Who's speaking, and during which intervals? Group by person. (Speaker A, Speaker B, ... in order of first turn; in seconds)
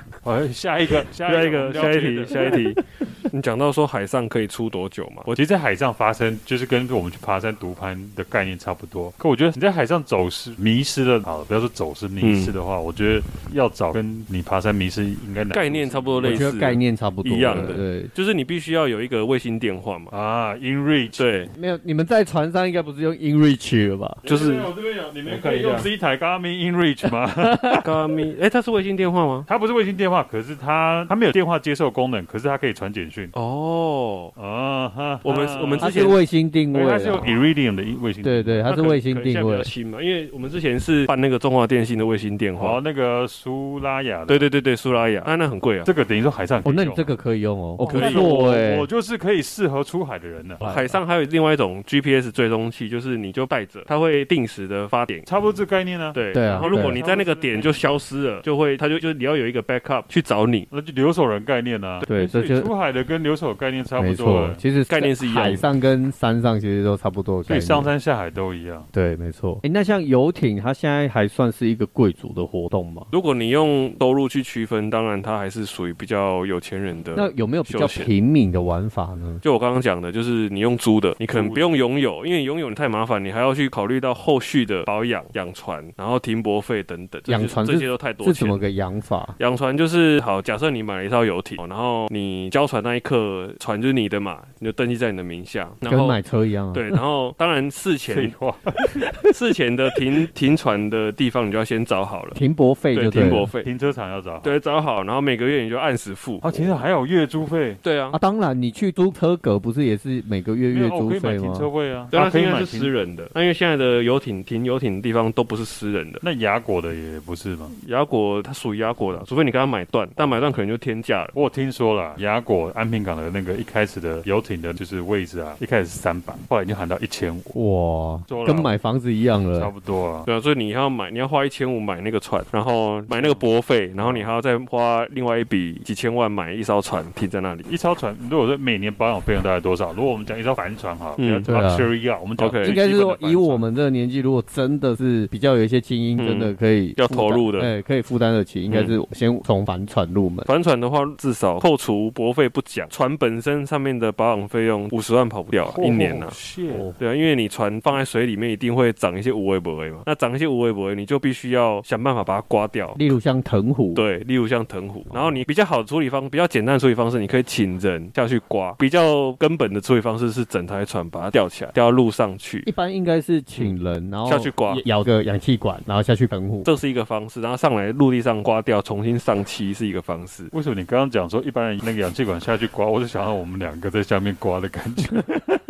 Speaker A: 0.2-2.6, 5.3-16.6, 20.1-21.3, 24.2-27.8, 29.5-33.3, 34.4-36.1, 36.7-38.7, 42.6-44.5, 45.8-47.1, 47.9-50.6, 55.2-57.9, 60.7-64.6, 67.5-68.9, 81.3-81.7, 98.1-99.0, 103.0-104.5, 106.4-107.8, 110.7-112.9, 116.2-117.7, 121.3-127.5, 128.3-128.7, 129.5-130.3, 133.1-133.4, 134.0-134.3, 137.7-143.7, 155.6-156.9, 180.5-185.3
Speaker B: 1.2-5.3, 12.2-12.5, 15.5-20.1, 21.2-21.5, 24.2-24.7, 25.2-25.9, 27.8-29.5, 33.3-34.3, 35.2-36.2, 38.6-42.8, 44.3-45.9, 47.8-48.3, 50.6-55.3, 56.1-60.7, 64.9-65.7, 73.1-78.1, 79.4-88.6, 89.4-96.2, 96.7-98.3, 99.3-102.4, 102.9-103.7, 104.4-106.8, 107.8-108.2, 112.1-116.2, 117.7-121.3, 130.2-137.7, 141.2-141.5, 142.4-142.8, 146.2-147.7, 148.7-148.9, 150.4-156.4, 157.0-163.1, 163.9-172.7, 173.6-174.8, 176.6-180.5
Speaker C: 16.2-18.1, 21.5-24.2, 27.1-27.9, 35.8-37.3, 38.2-39.7, 46.6-48.9, 50.6-51.0, 56.3-57.0, 62.0-62.7, 64.0-67.9, 68.9-73.1, 77.1-79.4, 87.3-89.3, 95.8-97.0, 102.3-103.5, 108.1-111.7, 127.5-129.7, 141.4-141.9, 142.6-150.5, 156.7-157.0, 162.9-164.0, 172.7-176.7